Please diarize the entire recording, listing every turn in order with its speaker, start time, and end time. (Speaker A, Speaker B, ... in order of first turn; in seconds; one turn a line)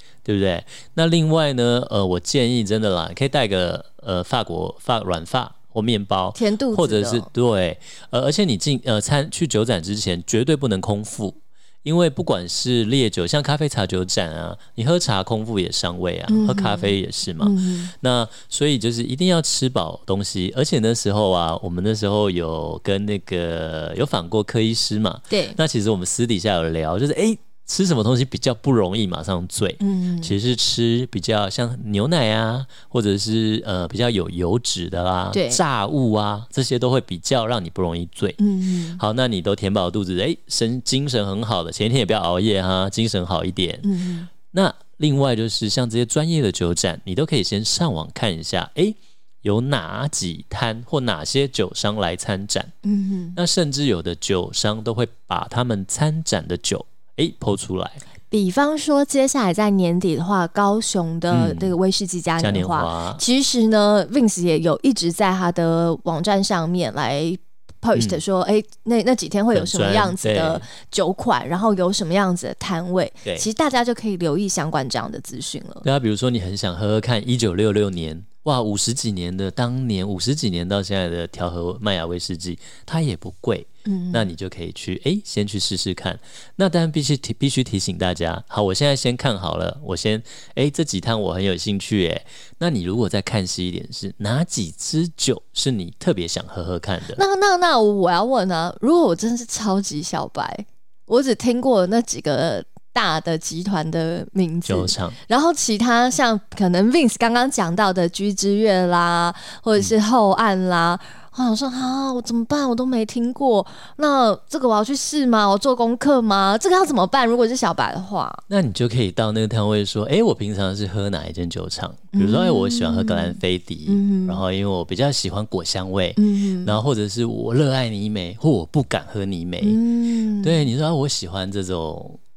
Speaker A: 0.2-38.4
Speaker B: 6.3-7.3
Speaker B: 16.3-17.9
Speaker B: 25.3-25.6
Speaker B: 29.8-30.3
Speaker B: 35.3-35.6
Speaker B: 38.4-39.0
Speaker A: 39.0-43.9
Speaker B: 43.8-44.3
Speaker A: 44.5-52.7
Speaker B: 52.8-53.4
Speaker A: 53.3-58.0
Speaker B: 58.3-75.8
Speaker A: 61.3-61.7
Speaker A: 62.4-63.2
Speaker A: 69.5-70.7
Speaker A: 75.8-97.2
Speaker B: 83.8-84.3
Speaker B: 97.1-118.4
Speaker A: 104.7-105.2
Speaker A: 118.5-129.8
Speaker B: 122.1-124.4
Speaker B: 126.2-126.7
Speaker B: 129.6-130.7
Speaker A: 130.4-132.2